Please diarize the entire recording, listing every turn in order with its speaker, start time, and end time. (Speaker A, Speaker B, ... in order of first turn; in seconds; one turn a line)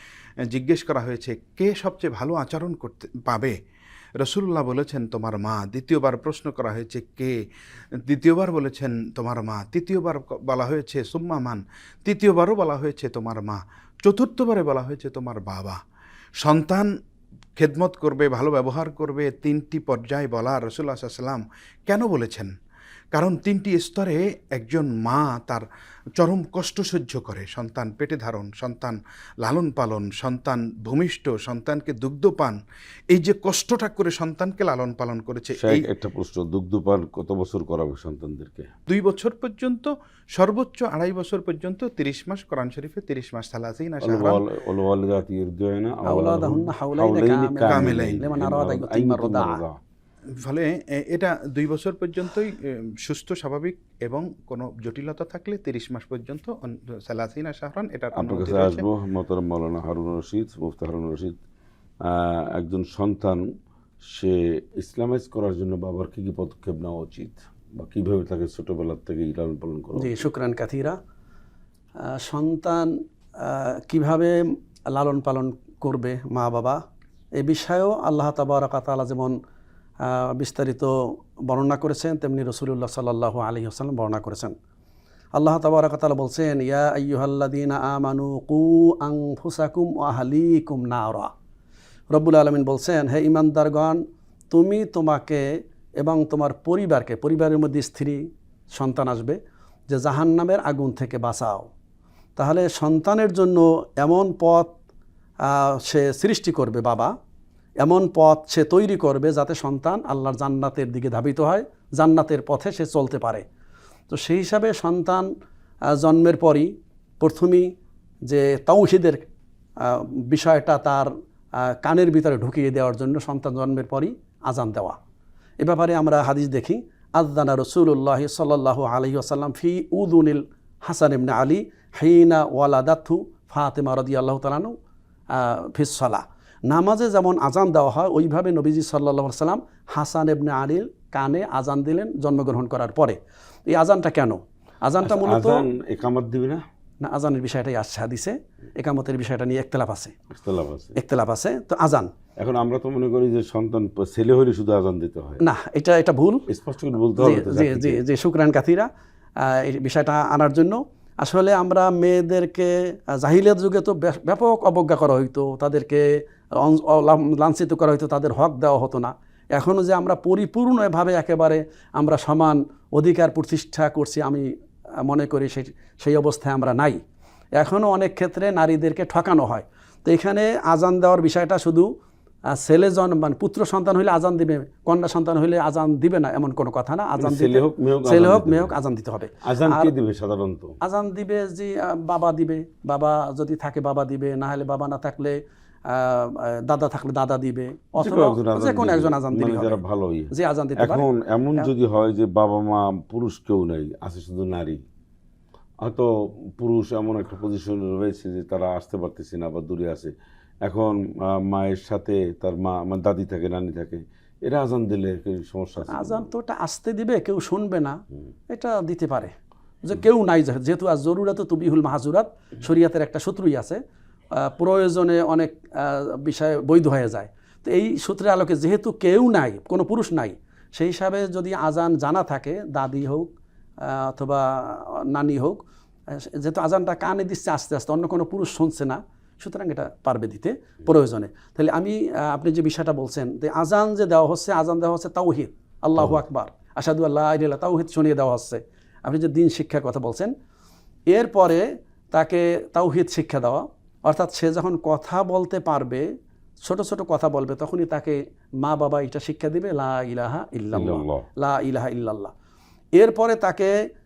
Speaker A: 0.4-3.6
Speaker A: 4.2-7.4
Speaker A: 8.0-15.8
Speaker A: 16.4-16.9
Speaker A: 17.6-22.5
Speaker A: 23.1-25.6
Speaker A: 26.2-35.9
Speaker B: 35.5-38.7
Speaker A: 38.9-44.4
Speaker B: 44.0-49.8
Speaker C: 46.0-49.6
Speaker A: 47.7-48.2
Speaker A: 50.4-58.8
Speaker B: 58.1-61.4
Speaker B: 62.0-63.5
Speaker B: 64.0-70.2
Speaker C: 69.9-71.0
Speaker C: 72.0-76.8
Speaker C: 77.4-79.4
Speaker C: 80.0-84.5
Speaker C: 85.3-91.3
Speaker C: 92.1-95.5
Speaker C: 96.0-98.2
Speaker C: 98.8-99.4
Speaker C: 99.9-101.7
Speaker C: 102.4-104.7
Speaker C: 105.4-107.1
Speaker C: 107.8-113.4
Speaker C: 114.1-115.3
Speaker C: 115.9-117.7
Speaker C: 118.3-119.2
Speaker C: 119.8-125.0
Speaker C: 125.6-134.7
Speaker C: 135.3-145.6
Speaker B: 145.0-146.6
Speaker C: 147.0-150.2
Speaker B: 150.3-151.0
Speaker C: 150.9-152.1
Speaker B: 152.4-155.4
Speaker C: 155.4-156.4
Speaker B: 156.5-158.0
Speaker C: 157.2-158.9
Speaker C: 159.4-174.5
Speaker C: 175.0-177.0
Speaker C: 177.6-181.9
Speaker C: 182.5-189.9
Speaker B: 187.2-188.7
Speaker B: 189.4-190.8
Speaker C: 190.8-199.8
Speaker B: 198.0-204.8
Speaker C: 200.3-201.0
Speaker B: 205.8-210.1
Speaker B: 210.6-216.3
Speaker C: 215.9-218.0
Speaker C: 218.5-219.3
Speaker C: 219.8-223.8
Speaker C: 224.3-250.3
Speaker B: 246.0-246.2
Speaker C: 251.1-256.1
Speaker C: 256.6-262.3
Speaker B: 260.7-261.2
Speaker C: 262.9-263.7